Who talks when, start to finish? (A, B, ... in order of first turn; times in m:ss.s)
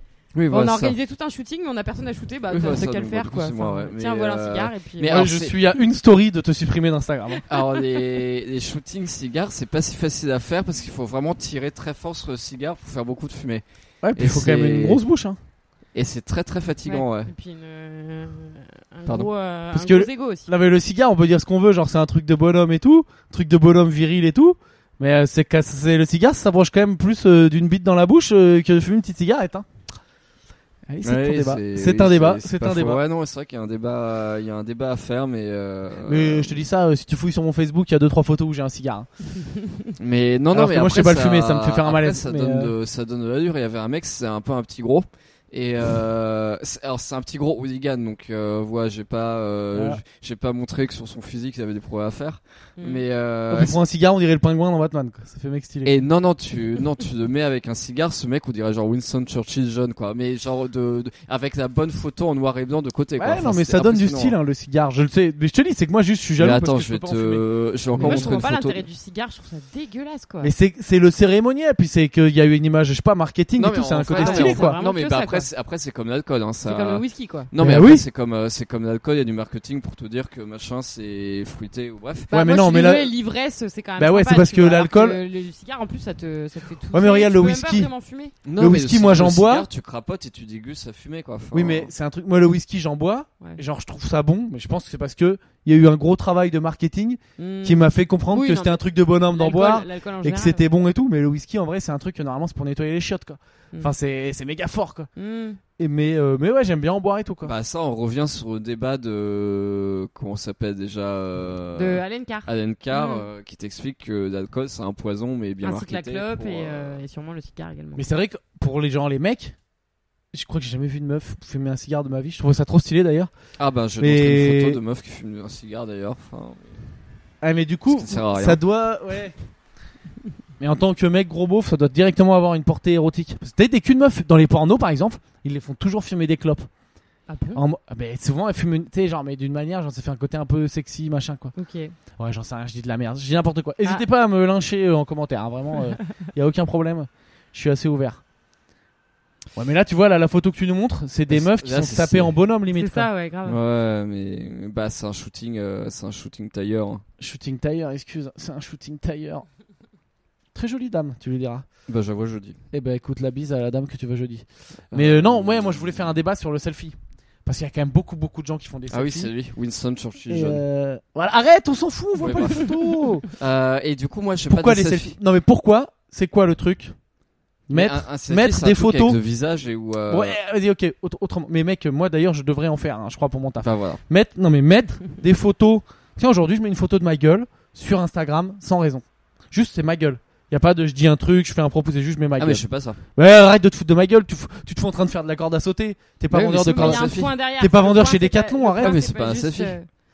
0:00.3-0:01.0 A
0:00.5-0:05.2 B
0:02.5-0:05.6 A
0:05.1-0:07.4 C
0:07.5-0:13.6 A
0:07.6-0:07.8 B
0:14.0-0:15.4 C
0:14.1-0:15.0 A
0:15.9-0:17.3 A
0:16.8-0:20.5 B
0:19.7-0:29.7 C
0:30.9-0:33.0 C
0:31.0-0:36.6 A
0:36.0-0:39.1 C
0:40.0-0:53.8 A
0:40.5-0:42.7 C
0:49.7-0:50.0 C
0:52.8-0:53.0 B
0:53.5-0:56.0 C
0:55.8-1:04.4 A
1:03.2-1:08.4 C
1:06.4-1:08.8 A
1:08.0-1:10.5 B
1:10.4-1:14.8 C
1:13.6-1:22.3 A
1:14.1-1:15.5 B
1:16.6-1:17.5 B
1:17.6-1:18.0 C
1:22.3-1:28.3 B
1:22.3-1:23.1 C
1:24.0-1:25.2 C
1:26.9-1:27.9 C
1:28.4-1:31.9 A
1:28.6-1:29.7 C
1:31.5-1:45.1 C
1:37.4-1:40.7 B
1:45.2-1:45.6 B
1:45.8-1:47.5 C
1:47.4-1:57.0 A
1:51.7-1:53.2 B
1:55.6-1:58.0 B
1:58.0-1:59.5 C
2:00.3-2:03.3 C
2:03.6-2:06.8 A
2:04.0-2:04.8 C
2:07.4-2:09.3 C
2:07.9-2:08.6 A
2:10.6-2:16.7 C
2:17.3-2:17.6 B
2:17.5-2:21.5 C
2:21.5-2:21.9 B
2:22.2-2:28.2 C
2:29.6-2:33.1 C
2:31.3-2:32.4 A
2:32.7-2:33.6 B
2:33.4-2:37.0 A
2:37.2-2:39.4 C
2:40.5-2:41.7 C
2:41.9-2:42.6 A
2:42.7-2:49.3 C
2:44.9-2:46.1 A
2:48.9-2:50.6 A
2:50.3-2:53.2 C
2:52.2-2:52.8 A
2:53.3-2:55.2 A
2:54.5-2:57.0 C
2:57.7-2:59.2 C
2:57.7-3:00.4 A
3:00.1-3:12.6 C
3:03.6-3:04.0 A
3:12.4-3:13.0 A
3:13.2-3:19.0 C
3:16.3-3:17.3 A
3:16.7-3:19.9 B
3:18.8-3:19.8 A